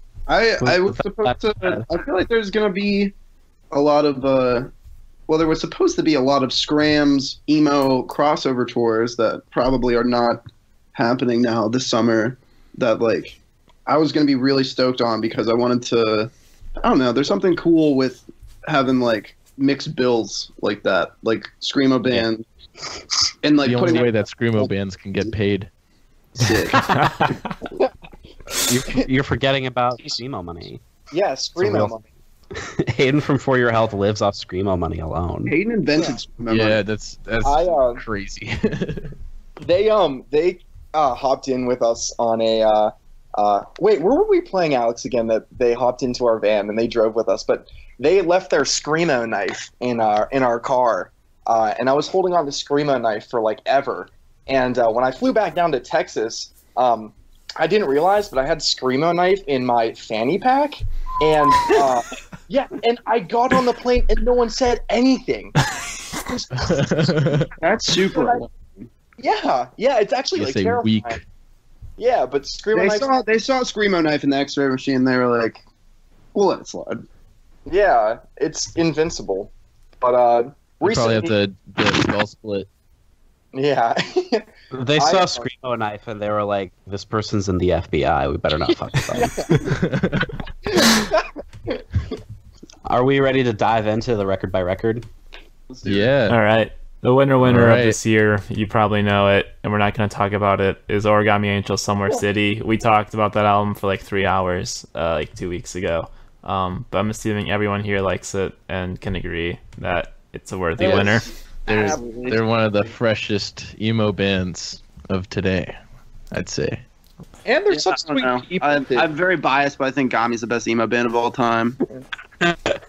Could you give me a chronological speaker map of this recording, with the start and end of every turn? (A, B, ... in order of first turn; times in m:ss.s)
0:00.3-0:03.1 A
0:00.6-0:01.9 B
0:03.7-0:04.7 A
0:05.3-0:10.4 A
0:10.9-0:16.3 A
0:16.8-0:22.4 A
0:23.4-0:24.2 A
0:23.6-0:25.7 C
0:26.4-0:27.2 A
0:26.8-0:27.4 D
0:28.6-0:30.8 B
0:31.1-0:32.0 E
0:31.6-0:31.9 B
0:32.5-0:35.5 B
0:35.5-0:36.8 A
0:36.5-0:39.1 C
0:37.4-0:38.0 E
0:39.6-1:05.6 E
1:06.2-1:07.5 E
1:06.5-1:07.5 C
1:07.6-1:08.4 A
1:08.0-1:08.4 E
1:09.2-1:11.2 E
1:10.3-1:11.2 C
1:12.0-1:13.2 E
1:12.7-1:15.6 A
1:16.3-1:17.0 A
1:17.7-1:21.3 E
1:20.8-1:22.7 C
1:23.5-1:25.5 E
1:24.7-1:29.3 B
1:29.2-1:29.5 E
1:29.6-1:30.3 C
1:30.7-1:31.8 E
1:32.8-1:35.0 B
1:35.7-1:36.0 A
1:35.8-1:36.4 C
1:36.3-1:51.3 D
1:37.4-1:38.0 C
1:50.8-1:52.3 E
1:51.7-1:55.8 C
1:51.7-1:52.4 A
1:56.3-1:56.8 C
1:57.4-1:59.1 E
1:57.7-2:01.8 A